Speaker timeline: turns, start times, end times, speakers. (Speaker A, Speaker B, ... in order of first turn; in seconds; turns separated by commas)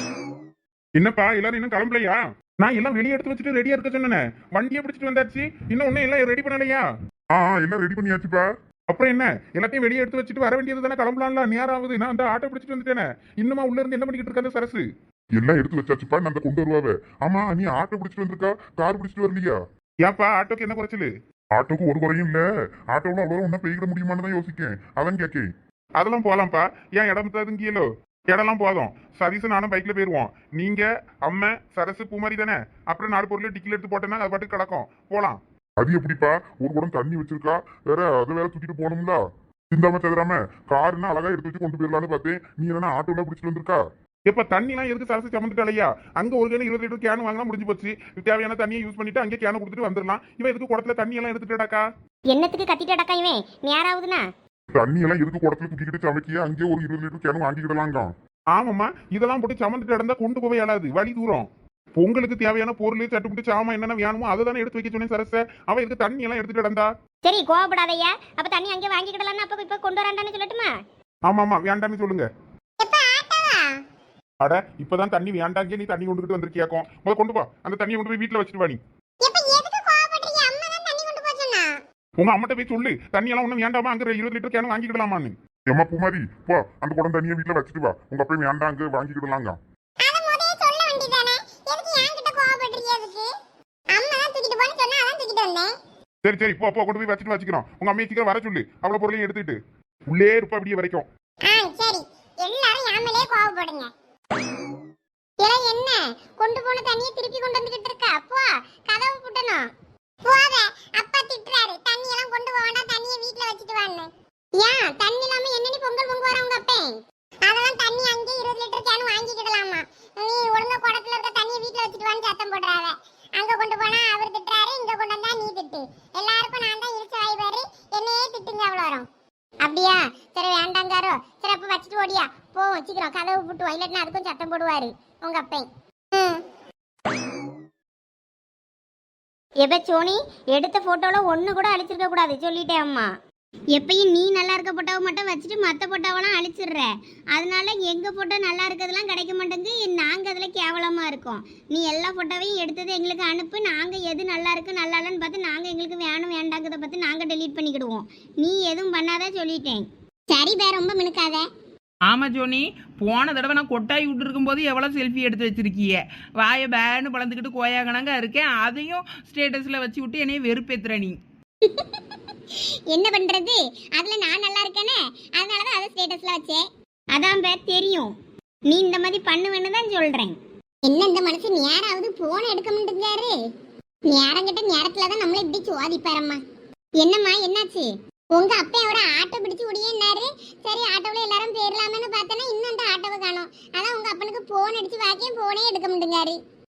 Speaker A: 1.0-6.8, Speaker B: 7.3-8.5, Speaker A: 8.9-14.8, Speaker B: 15.4-19.6, Speaker A: 20.0-21.1, Speaker B: 21.6-25.5, Speaker A: 26.0-35.4, Speaker B: 35.8-39.2, Speaker B: 39.7-43.8, Speaker A: 44.3-51.9, Speaker C: 52.3-54.3, Speaker B: 54.8-58.1, Speaker A: 58.5-66.9, Speaker C: 67.2-70.8, Speaker A: 71.3-72.3, Speaker D: 72.8-73.8, Speaker A: 74.4-78.8, Speaker D: 79.2-81.7, Speaker A: 82.2-85.3, Speaker B: 85.7-89.6, Speaker D: 90.0-93.3, Speaker D: 93.9-95.7, Speaker A: 96.2-99.6, Speaker A: 100.1-101.1, Speaker D: 101.5-103.9, Speaker D: 105.4-109.7, Speaker D: 110.2-116.9, Speaker D: 117.5-129.1, Speaker D: 129.6-136.4, Speaker C: 139.6-143.1, Speaker C: 143.8-159.9, Speaker D: 160.3-161.4, Speaker E: 162.1-171.2, Speaker D: 171.6-172.0, Speaker D: 172.9-176.7, Speaker C: 177.1-178.1, Speaker C: 178.7-180.4, Speaker D: 180.8-183.3, Speaker D: 184.1-186.4, Speaker D: 187.0-196.4